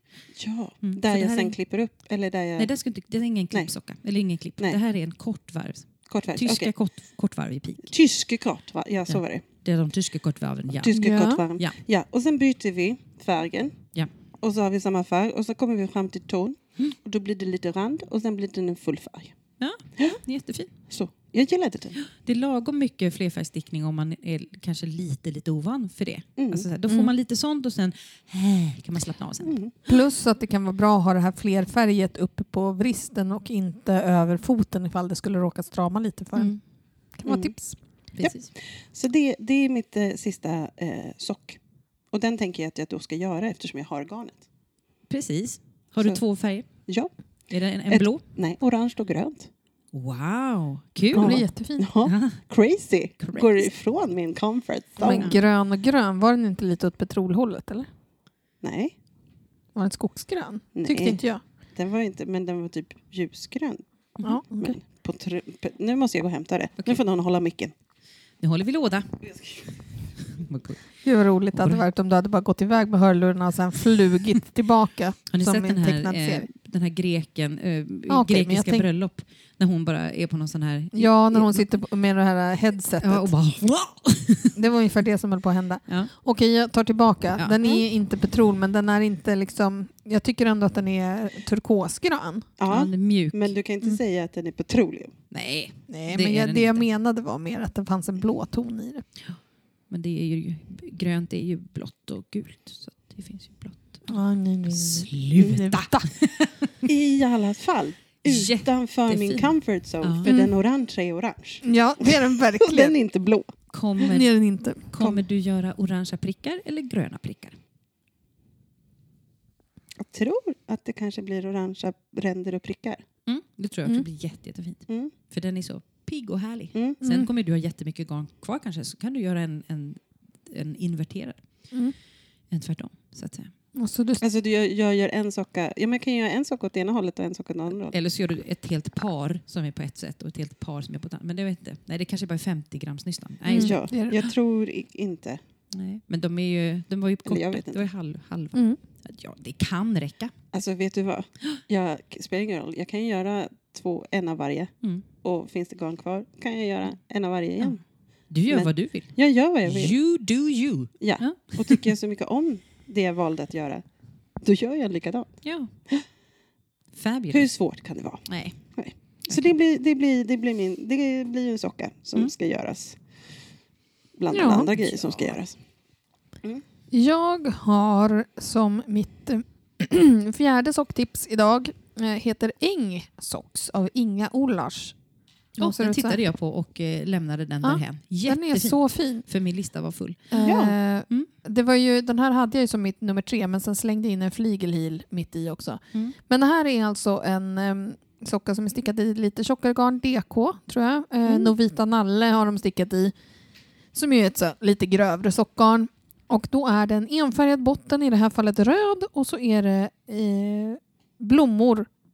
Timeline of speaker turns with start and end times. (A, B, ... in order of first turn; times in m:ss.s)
0:00.4-0:02.7 A
0:00.8-0:01.6 B
0:02.6-0:07.9 B
0:06.1-0:06.7 A
0:07.9-0:09.4 A
0:09.1-0:11.0 B
0:10.8-0:13.8 A
0:10.9-0:11.4 C
0:14.4-0:19.4 A
0:19.6-0:20.7 B
0:20.9-0:22.0 A
0:22.0-0:29.6 B
0:26.4-0:26.7 A
0:29.4-0:29.8 A
0:29.9-0:36.6 C
0:37.2-0:37.8 C
0:37.3-0:37.5 A
0:38.2-0:38.5 B
0:38.9-0:41.6 A
0:42.1-0:44.4 A
0:45.1-0:46.7 B
0:47.5-0:48.2 B
0:47.9-0:49.5 A
0:49.9-0:51.5 B
0:51.1-0:51.9 C
0:51.1-0:55.3 A
0:52.0-0:52.4 B
0:53.2-0:53.7 B
0:55.0-0:57.9 C
0:55.0-0:55.4 B
0:58.6-0:59.0 A
0:59.8-1:01.4 C
1:00.8-1:01.2 A
1:01.8-1:03.8 A
1:04.2-1:04.8 C
1:04.6-1:07.7 A
1:08.4-1:09.2 B
1:10.2-1:10.8 B
1:11.0-1:16.5 C
1:11.6-1:11.8 B
1:15.3-1:21.6 B
1:18.1-1:18.9 C
1:20.9-1:23.3 C
1:23.0-1:24.6 B
1:24.6-1:32.5 C
1:27.4-1:27.8 B
1:32.6-1:35.1 A
1:32.7-1:33.6 B
1:35.3-1:36.8 B
1:35.9-1:39.0 C
1:39.9-1:44.2 B
1:44.1-1:46.1 C
1:44.7-1:46.9 B
1:46.9-1:53.5 A
1:48.2-1:50.4 B
1:50.2-1:50.5 C
1:51.6-1:53.0 C
1:53.7-1:54.3 B
1:54.0-1:54.8 C
1:54.9-1:57.6 B
2:00.0-2:03.0 A
2:03.3-2:11.4 B
2:04.9-2:05.1 A
2:06.8-2:07.0 A
2:07.0-2:07.3 C
2:12.5-2:13.5 B
2:13.8-2:14.2 C
2:14.2-2:18.0 A
2:17.9-2:24.3 B
2:23.5-2:24.2 C
2:23.6-2:25.4 A
2:25.7-2:30.3 B
2:27.3-2:27.9 A
2:28.5-2:28.8 C
2:30.5-2:34.7 A
2:35.2-2:37.8 A
2:38.3-2:39.1 B
2:38.5-2:40.0 A
2:39.6-2:41.9 B
2:41.0-2:43.8 A
2:44.4-2:45.3 A
2:45.4-2:45.7 B
2:46.9-2:47.5 B
2:47.3-2:48.2 A
2:48.3-2:48.6 B
2:48.8-2:53.0 A
2:54.2-2:55.6 A
2:54.3-2:54.7 C
2:54.8-2:55.3 B
2:56.9-3:05.0 C
3:05.6-3:06.2 C
3:05.6-3:10.5 B
3:07.6-3:09.3 C
3:10.3-3:23.1 C
3:10.4-3:10.7 A
3:23.9-3:31.9 C